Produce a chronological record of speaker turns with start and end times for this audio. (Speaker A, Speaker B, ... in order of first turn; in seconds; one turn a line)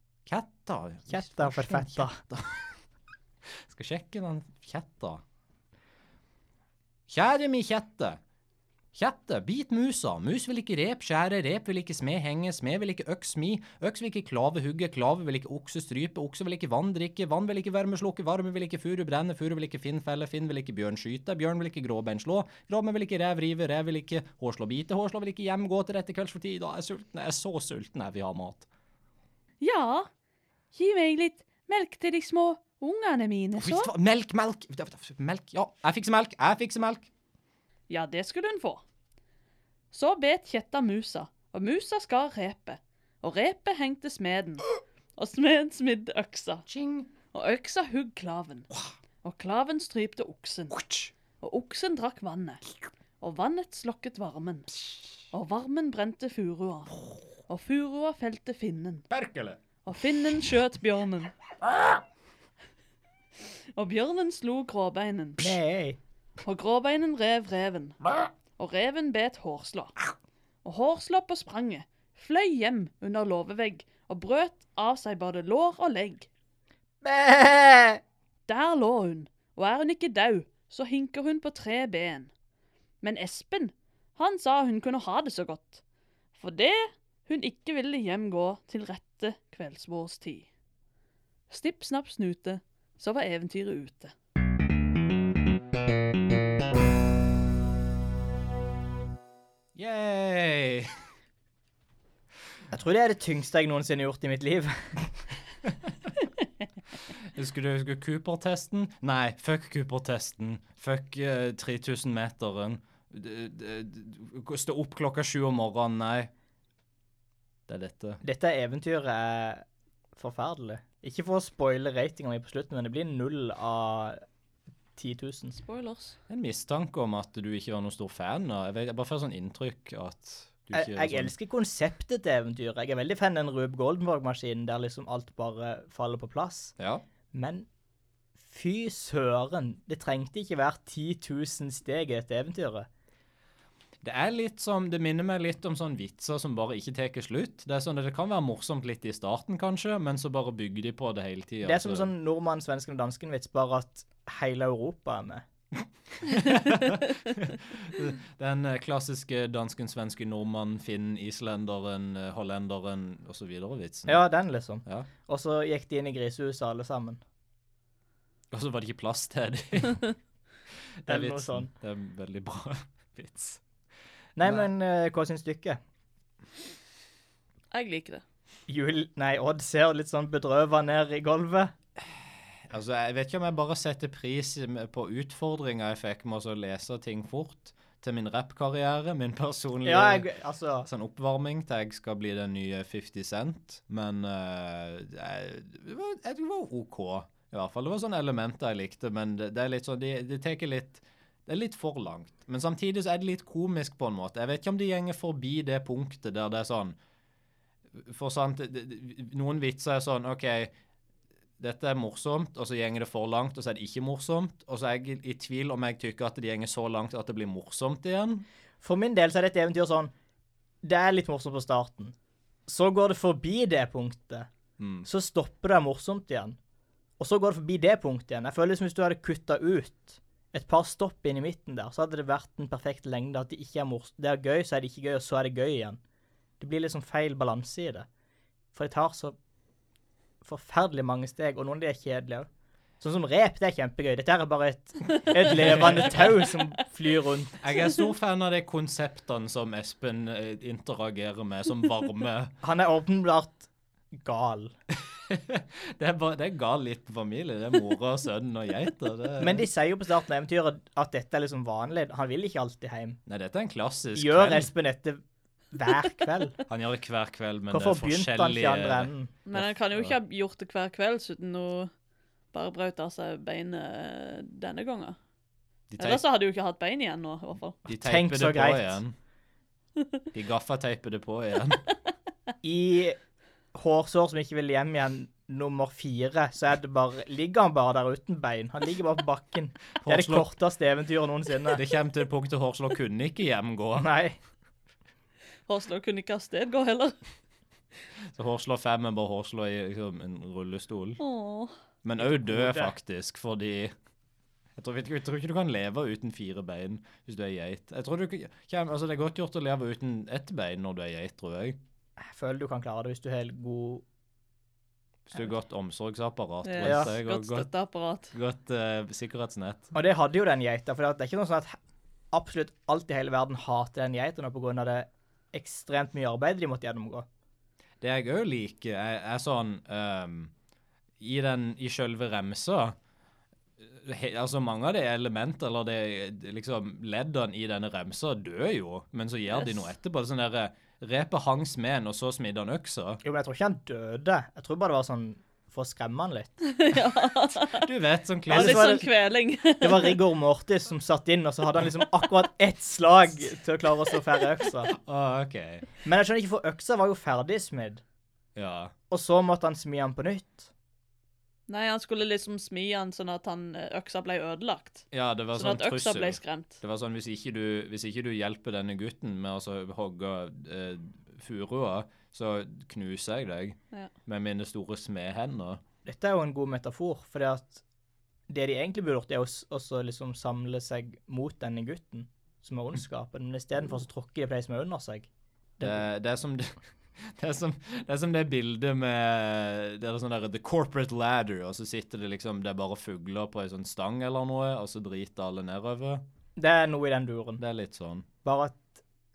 Speaker A: 0.3-2.7
Speaker B: 1.1-2.2
Speaker A: 3.7-5.2
Speaker A: 7.1-8.2
Speaker A: 8.9-28.7
Speaker C: 29.6-30.1
Speaker C: 30.7-33.9
Speaker A: 33.6-37.1
Speaker C: 37.9-38.8
Speaker C: 39.9-46.6
Speaker A: 46.7-47.1
Speaker C: 47.3-48.7
Speaker C: 49.2-50.8
Speaker A: 50.7-51.1
Speaker C: 51.4-52.6
Speaker C: 53.2-59.1
Speaker A: 59.1-59.6
Speaker C: 59.9-61.4
Speaker C: 63.8-65.6
Speaker B: 65.4-66.0
Speaker C: 66.4-68.0
Speaker C: 68.6-70.0
Speaker C: 70.6-76.3
Speaker B: 77.0-78.0
Speaker C: 78.5-82.3
Speaker C: 83.0-85.8
Speaker C: 86.4-90.5
Speaker C: 91.5-94.1
Speaker A: 99.8-100.9
Speaker B: 102.7-105.1
Speaker A: 107.3-116.3
Speaker A: 117.7-118.2
Speaker B: 118.2-119.7
Speaker B: 120.2-124.2
Speaker B: 125.0-125.6
Speaker C: 125.6-126.2
Speaker A: 126.3-131.3
Speaker B: 130.7-136.8
Speaker A: 136.8-137.0
Speaker B: 137.3-137.7
Speaker B: 138.4-142.9
Speaker A: 144.0-152.1
Speaker B: 151.6-155.4
Speaker A: 156.3-164.2
Speaker B: 164.1-167.2
Speaker A: 168.5-170.1
Speaker A: 171.0-173.6
Speaker B: 171.1-171.7
Speaker B: 174.4-175.8
Speaker C: 177.7-178.2
Speaker B: 178.7-181.7
Speaker A: 182.7-190.3
Speaker B: 189.8-190.9
Speaker A: 190.8-207.0
Speaker A: 207.9-210.7
Speaker A: 211.6-218.5
Speaker B: 218.8-220.1
Speaker B: 220.8-222.1
Speaker B: 222.7-224.5
Speaker A: 224.8-225.1
Speaker B: 225.0-226.6
Speaker B: 227.2-236.0
Speaker B: 236.6-238.1
Speaker B: 238.7-239.4
Speaker B: 240.4-242.5
Speaker B: 243.0-247.6
Speaker A: 245.6-246.2
Speaker A: 247.6-252.5
Speaker B: 252.6-254.8
Speaker A: 255.2-259.7
Speaker B: 259.4-263.2
Speaker A: 263.3-264.7
Speaker B: 264.1-266.6
Speaker A: 266.7-270.1
Speaker B: 267.7-269.3
Speaker C: 269.5-271.9
Speaker C: 272.5-275.2
Speaker A: 275.9-276.2
Speaker C: 276.0-277.8
Speaker A: 277.9-279.1
Speaker B: 277.9-279.0
Speaker A: 280.3-281.8
Speaker B: 282.6-283.2
Speaker B: 283.7-291.8
Speaker A: 290.0-290.5
Speaker A: 291.7-294.1
Speaker B: 294.0-294.4
Speaker C: 295.7-297.2
Speaker A: 298.4-301.2
Speaker C: 301.2-301.7
Speaker A: 302.0-303.9
Speaker B: 302.2-302.9
Speaker A: 304.8-311.8
Speaker B: 312.2-314.0
Speaker A: 315.3-317.7
Speaker C: 316.6-318.3
Speaker B: 316.8-317.1
Speaker A: 318.3-319.9
Speaker B: 319.9-321.8
Speaker B: 322.3-327.3
Speaker A: 328.0-330.5
Speaker A: 331.2-333.0
Speaker A: 333.8-343.2
Speaker B: 343.2-346.6
Speaker C: 346.6-347.9
Speaker A: 347.6-349.1
Speaker B: 348.5-349.1
Speaker C: 348.5-350.2
Speaker B: 349.8-354.9
Speaker A: 354.9-355.9
Speaker B: 356.1-358.0
Speaker A: 358.6-358.9
Speaker B: 359.1-360.7
Speaker C: 361.7-366.8
Speaker A: 365.1-375.8
Speaker B: 376.1-377.8
Speaker B: 378.5-385.3
Speaker A: 385.8-396.2
Speaker B: 396.6-397.6
Speaker A: 397.6-398.3
Speaker B: 398.4-399.0